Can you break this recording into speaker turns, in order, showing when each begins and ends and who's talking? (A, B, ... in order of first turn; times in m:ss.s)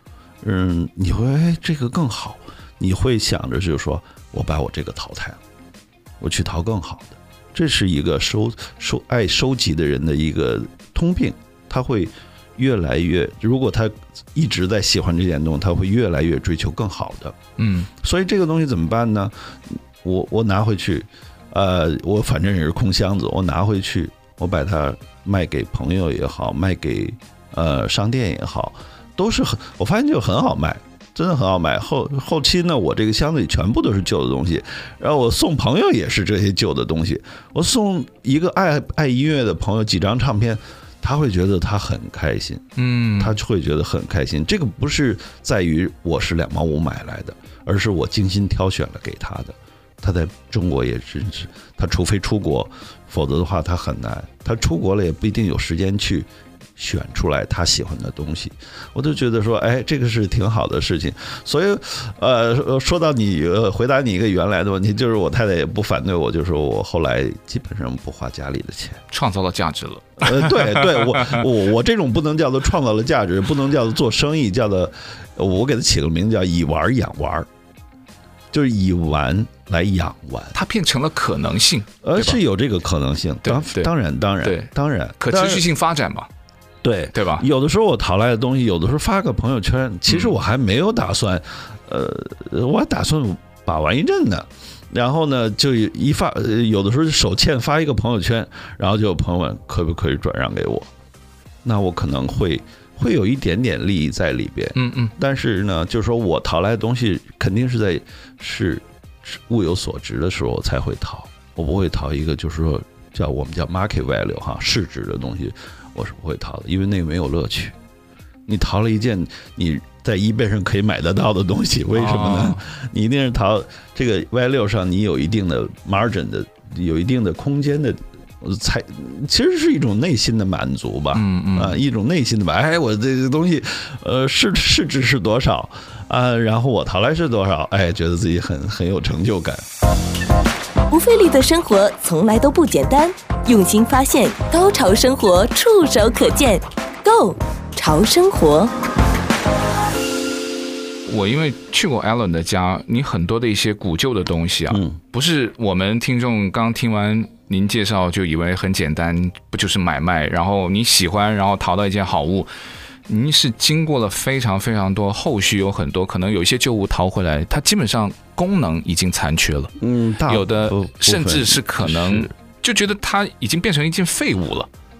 0:00.4-0:05.4 A
0:06.2-0:17.4 A
0:17.6-0:17.9 B
0:18.0-0:42.6 A
0:42.8-0:43.4 B
0:43.2-1:09.0 A
1:09.1-1:11.4 B
1:10.2-1:17.5 A
1:18.5-1:20.6 A
1:20.5-1:22.4 B
1:22.0-1:25.6 A
1:23.4-1:23.9 B
1:24.4-1:26.3 B
1:26.8-1:40.9 A
1:27.1-1:27.4 B
1:41.6-1:57.8 A
1:44.8-1:45.1 B
1:58.5-2:19.6 A
2:01.9-2:02.6 B
2:11.1-2:11.8 B
2:20.9-2:28.7 C
2:31.1-2:42.5 B
2:34.7-2:35.0 A
2:43.1-2:49.7 B
2:49.8-2:52.3 A
2:50.3-2:54.7 B